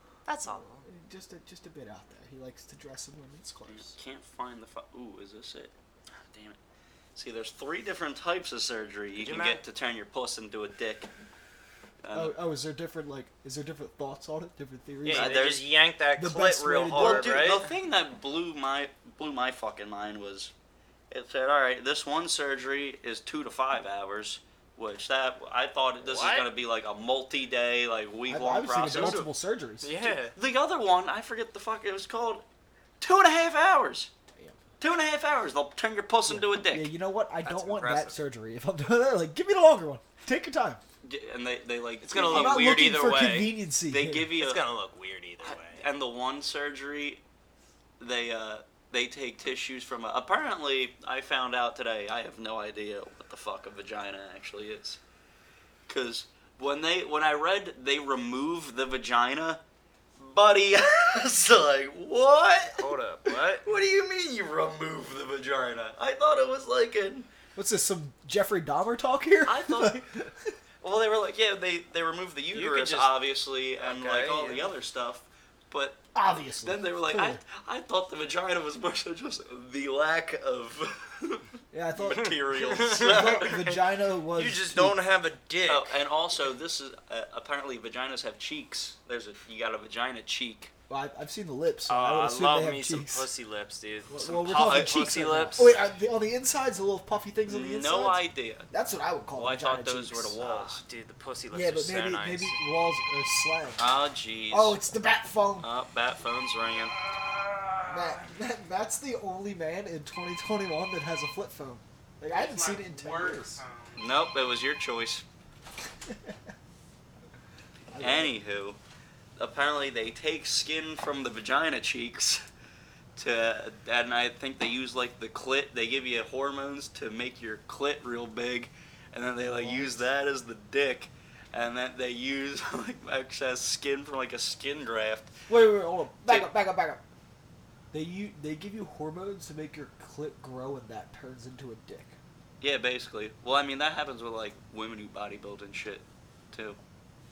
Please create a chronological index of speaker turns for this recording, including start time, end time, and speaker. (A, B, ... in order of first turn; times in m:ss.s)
0:00.3-0:00.8 A
0:00.4-0:03.9 B
0:03.7-0:06.6 C
0:07.1-0:11.1 C
0:09.2-0:09.6 A
0:12.0-0:12.4 C
0:12.1-0:15.4 B
0:15.0-0:17.6 A
0:15.1-0:15.7 C
0:16.2-0:17.5 B
0:16.9-0:20.5 C
0:21.1-0:29.3 C
0:26.0-0:26.5 A
0:28.3-0:30.0 B
0:28.9-0:29.3 A
0:29.8-0:30.4 A
0:30.3-0:32.4 C
0:33.0-0:34.1 C
0:34.8-0:36.9 C
0:36.3-0:40.8 B
0:37.4-0:38.2 A
0:41.0-0:42.8 C
0:42.0-0:43.6 A
0:42.3-0:44.3 B
0:43.9-0:44.6 C
0:44.4-0:45.9 A
0:45.4-0:47.2 C
0:48.0-0:55.0 C
0:55.9-0:59.6 C
1:00.2-1:07.3 C
1:02.8-1:03.6 A
1:07.6-1:10.6 B
1:09.4-1:10.0 C
1:10.8-1:16.0 C
1:12.5-1:13.1 A
1:13.8-1:14.7 A
1:16.1-1:17.4 B
1:16.6-1:23.8 C
1:21.7-1:22.4 B
1:22.1-1:23.5 A
1:22.9-1:25.0 B
1:24.4-1:25.9 A
1:25.7-1:30.7 C
1:30.9-1:33.3 B
1:31.9-1:35.7 A
1:34.1-1:40.4 B
1:34.4-1:35.5 C
1:37.5-1:38.7 C
1:39.3-1:40.8 C
1:40.4-1:42.6 A
1:41.5-1:43.9 B
1:43.8-1:44.8 C
1:44.5-1:45.7 B
1:45.6-1:46.9 C
1:46.9-1:48.2 A
1:47.9-1:53.6 B
1:52.3-1:54.0 A
1:54.0-1:55.2 C
1:57.9-1:58.4 B
1:58.0-1:58.8 C
1:59.4-2:02.4 C
2:03.2-2:15.3 C
2:09.4-2:10.0 B
2:15.5-2:17.0 B
2:17.9-2:22.2 B
2:22.6-2:26.8 C